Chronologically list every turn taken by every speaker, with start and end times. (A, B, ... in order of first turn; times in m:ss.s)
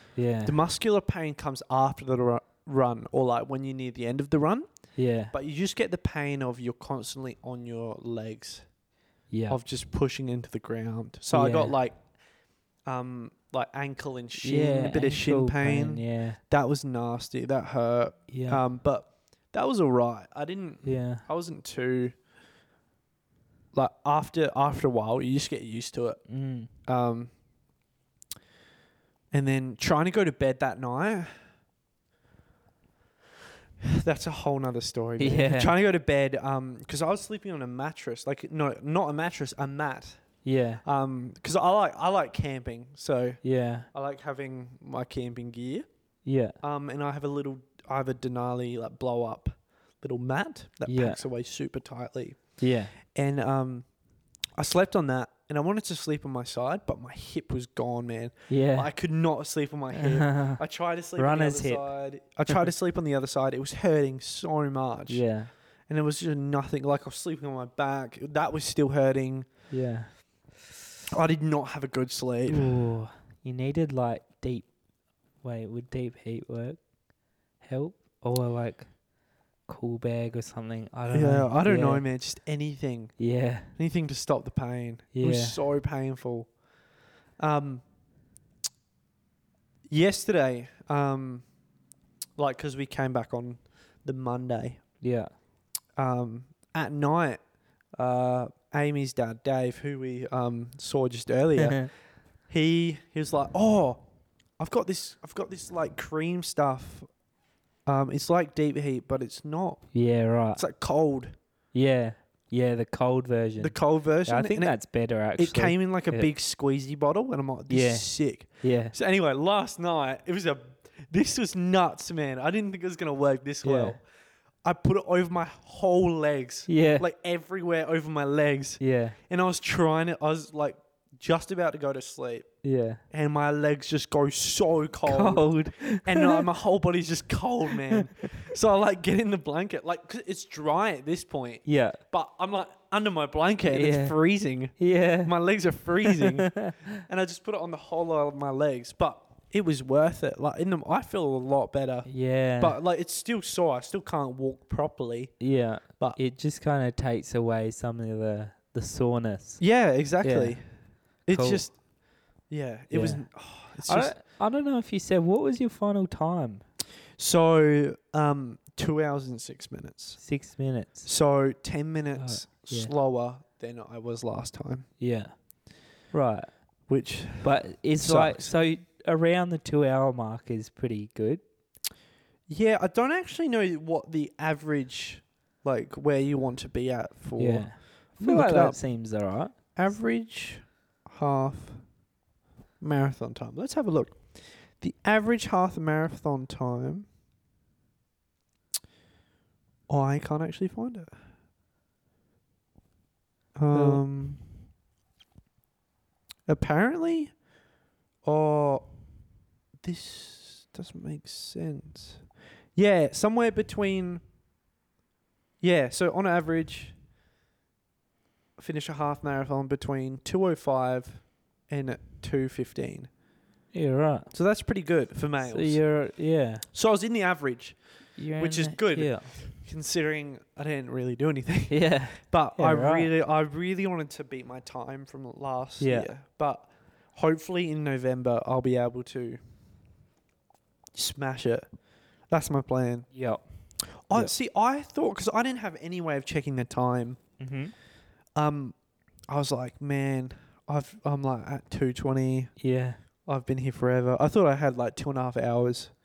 0:00.2-0:00.5 A
0:00.4-0:04.7 B
0:05.0-0:05.3 A
0:05.3-0:08.6 B
0:09.3-0:09.6 A
0:09.5-0:12.0 B
0:11.3-0:11.7 A
0:12.8-0:22.1 B
0:14.4-0:16.4 A
0:18.3-0:18.6 A
0:20.8-0:21.2 A
0:23.7-0:26.2 B
0:26.3-0:26.7 A
0:26.9-0:27.3 B
0:29.3-0:31.3 B
0:33.8-0:40.2 B
0:35.2-0:35.7 A
0:40.4-0:40.8 A
0:40.8-0:43.4 B
0:43.4-0:43.9 A
0:43.9-0:45.8 B
0:46.2-0:46.6 A
0:46.6-0:52.4 B
0:50.9-0:51.2 A
0:52.6-0:52.9 A
0:53.1-0:53.8 B
0:54.6-1:05.2 B
0:58.5-0:58.9 A
0:59.9-1:00.6 A
1:01.2-1:01.8 A
1:05.1-1:05.5 A
1:05.9-1:09.5 B
1:09.7-1:10.1 A
1:11.1-1:12.8 B
1:12.5-1:14.7 A
1:15.4-1:16.8 A
1:17.6-1:18.9 A
1:19.7-1:22.0 A
1:21.1-1:23.2 B
1:23.2-1:23.7 A
1:23.7-1:26.5 B
1:25.1-1:25.6 A
1:27.4-1:27.8 B
1:29.9-1:31.4 B
1:32.4-1:34.8 B
1:35.0-1:35.3 A
1:36.0-1:37.4 B
1:38.0-1:41.8 B
1:41.6-1:41.9 A
1:42.5-1:44.0 B
1:44.6-1:47.1 B
1:47.8-1:49.9 B
1:49.9-1:50.6 A
1:50.5-1:51.3 B
1:51.7-1:56.3 A
1:53.6-1:54.8 B
1:55.4-2:04.0 B
1:57.7-1:58.9 A
2:03.6-2:04.0 A
2:04.6-2:12.5 B
2:06.7-2:07.0 A
2:08.8-2:09.2 A
2:12.6-2:13.0 A
2:13.1-2:15.5 B
2:15.0-2:16.4 A
2:16.0-2:35.3 B
2:21.6-2:22.0 A
2:23.7-2:24.2 A
2:24.8-2:25.3 A
2:26.0-2:26.7 A
2:32.0-2:32.8 A
2:35.4-2:39.6 A
2:39.6-2:40.6 B
2:40.2-2:40.6 A
2:41.2-2:41.8 B
2:41.3-2:41.6 A
2:42.5-2:44.1 B
2:42.9-2:43.3 A
2:43.8-2:46.6 A
2:47.2-2:50.2 B
2:50.2-2:51.1 A
2:51.0-2:54.8 B
2:52.2-2:52.9 A
2:55.0-2:55.3 A
2:56.1-2:56.5 A
2:56.9-2:58.5 B
2:57.4-3:01.4 A
3:02.5-3:08.8 B
3:07.4-3:09.5 A
3:09.8-3:11.8 B
3:12.8-3:17.1 B
3:19.9-3:21.1 B
3:23.6-3:24.4 B
3:23.7-3:24.0 A
3:26.5-3:27.3 B
3:28.2-3:28.9 B
3:29.8-3:32.2 B
3:32.8-3:34.2 B
3:35.6-3:37.0 B
3:38.6-3:43.1 B
3:43.7-3:44.3 A
3:44.3-3:45.8 B
3:45.4-3:46.6 A
3:46.7-3:47.8 B
3:48.2-3:49.3 A
3:48.4-3:59.4 B
3:51.7-3:53.1 A
3:55.8-3:56.1 A
4:00.9-4:01.6 B
4:02.3-4:03.1 B
4:03.1-4:03.4 A
4:04.1-4:07.2 B
4:07.4-4:07.7 A
4:08.4-4:08.8 B
4:09.3-4:12.5 B
4:12.6-4:13.0 A
4:13.2-4:15.9 B